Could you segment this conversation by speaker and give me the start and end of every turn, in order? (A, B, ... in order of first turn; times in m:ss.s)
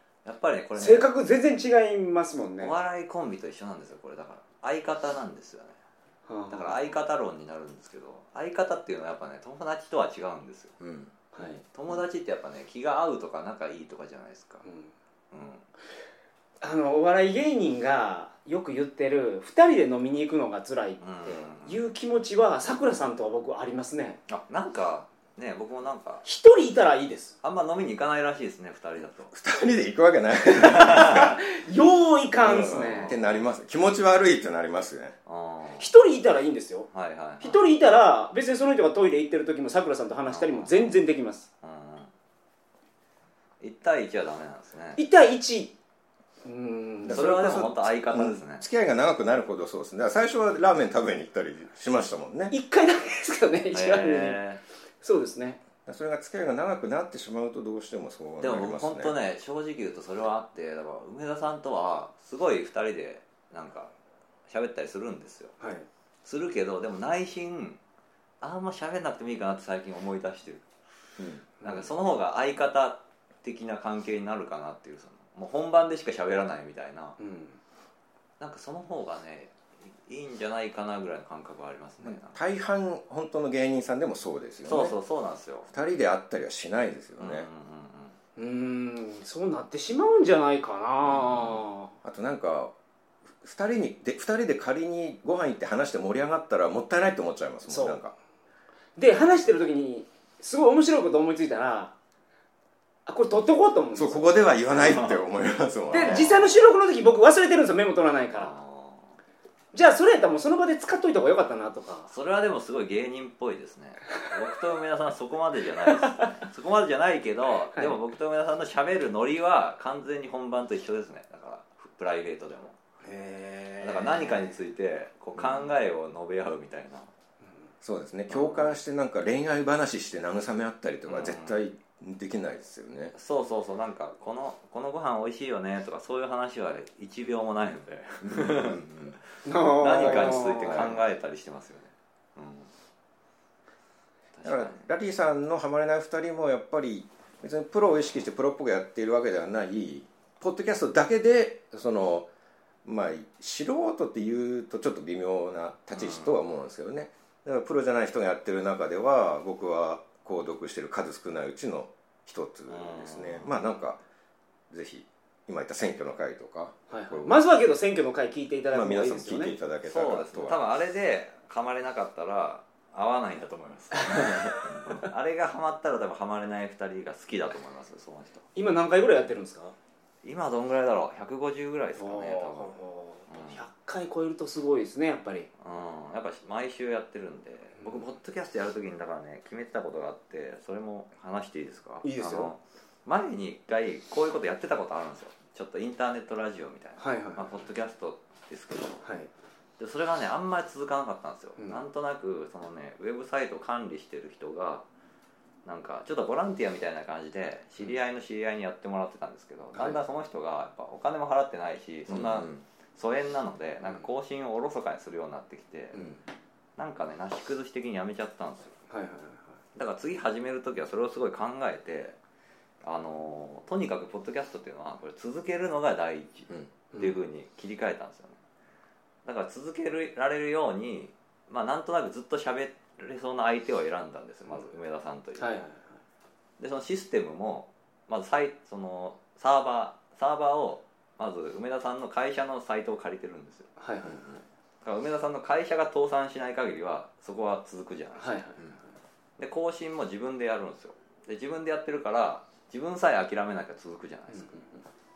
0:00.2-0:01.1 A
0:00.8-0:02.8 B
0:02.6-0:05.8 A
0:06.3-0:06.8 B
0:06.5-0:10.8 A
0:10.8-0:11.1 C
0:11.3-0:11.6 B
0:11.7-0:14.6 A
0:14.6-0:14.9 B
0:15.3-0:15.6 A
0:16.6-0:24.2 B
0:21.0-0:21.8 A
0:24.3-0:26.2 A
0:26.2-0:27.3 B
0:27.4-0:29.3 A
0:29.3-0:31.4 C
0:30.5-0:33.2 B
0:30.6-0:31.3 A
0:32.4-0:35.2 C
0:32.6-0:33.3 A
0:35.3-0:35.9 A
0:35.8-0:36.9 B
0:36.9-0:37.7 A
0:37.4-0:41.5 B
0:40.3-0:41.0 A
0:41.6-0:42.1 A
0:43.6-0:45.0 A
0:45.0-0:45.8 B
0:46.4-0:47.2 B
0:47.0-0:52.6 C
0:47.1-0:48.7 A
0:52.5-0:54.4 B
0:53.7-0:54.6 A
0:55.0-0:55.6 B
0:55.8-0:59.2 C
0:58.4-1:03.9 A
1:04.5-1:05.6 A
1:05.6-1:05.9 B
1:06.2-1:07.8 A
1:08.4-1:10.6 A
1:11.2-1:11.5 C
1:11.6-1:11.9 B
1:11.6-1:17.2 A
1:17.2-1:17.6 B
1:18.4-1:22.4 A
1:22.0-1:25.0 C
1:24.7-1:25.7 A
1:25.7-1:27.5 C
1:27.2-1:28.2 A
1:28.4-1:31.9 B
1:32.0-1:32.7 C
1:33.4-1:38.1 C
1:37.7-1:38.0 B
1:39.0-1:41.9 B
1:43.1-1:44.6 B
1:44.0-1:46.4 C
1:44.7-1:45.2 A
1:45.9-1:48.5 B
1:46.0-1:46.3 A
1:48.4-1:49.2 A
1:49.7-1:52.1 B
1:52.1-2:02.8 A
2:03.0-2:04.5 B
2:03.8-2:07.1 A
2:05.4-2:05.7 C
2:07.8-2:13.1 C
2:08.3-2:08.7 A
2:11.1-2:11.6 A
2:13.2-2:19.2 A
2:18.2-2:19.2 C
2:19.4-2:20.9 B
2:19.8-2:22.7 A
2:19.9-2:21.0 C
2:24.4-2:24.8 A
2:24.4-2:32.3 C
2:32.8-2:44.0 C
2:35.9-2:36.4 A
2:42.7-2:43.6 A
2:44.7-2:47.4 C
2:46.9-2:49.6 B
2:48.7-2:50.6 C
2:49.9-2:58.5 A
2:58.6-2:59.8 B
3:00.2-3:02.8 A
3:02.0-3:05.5 B
3:03.3-3:03.6 A
3:05.6-3:19.0 A
3:07.8-3:08.0 B
3:12.0-3:12.5 B
3:17.0-3:17.6 B
3:19.0-3:19.3 B
3:19.8-3:24.8 A
3:25.6-3:36.1 A
3:29.7-3:30.0 B
3:32.1-3:32.6 C
3:35.9-3:36.2 B
3:36.8-3:38.8 A
3:38.9-3:39.5 B
3:39.8-3:42.2 A
3:42.8-3:48.4 A
3:46.9-3:47.2 B
3:49.2-3:55.6 A
3:55.4-3:56.0 B
3:56.6-4:03.7 A
4:03.8-4:04.3 B
4:04.8-4:08.4 A
4:08.2-4:08.7 B
4:09.4-4:14.6 A
4:14.3-4:14.8 B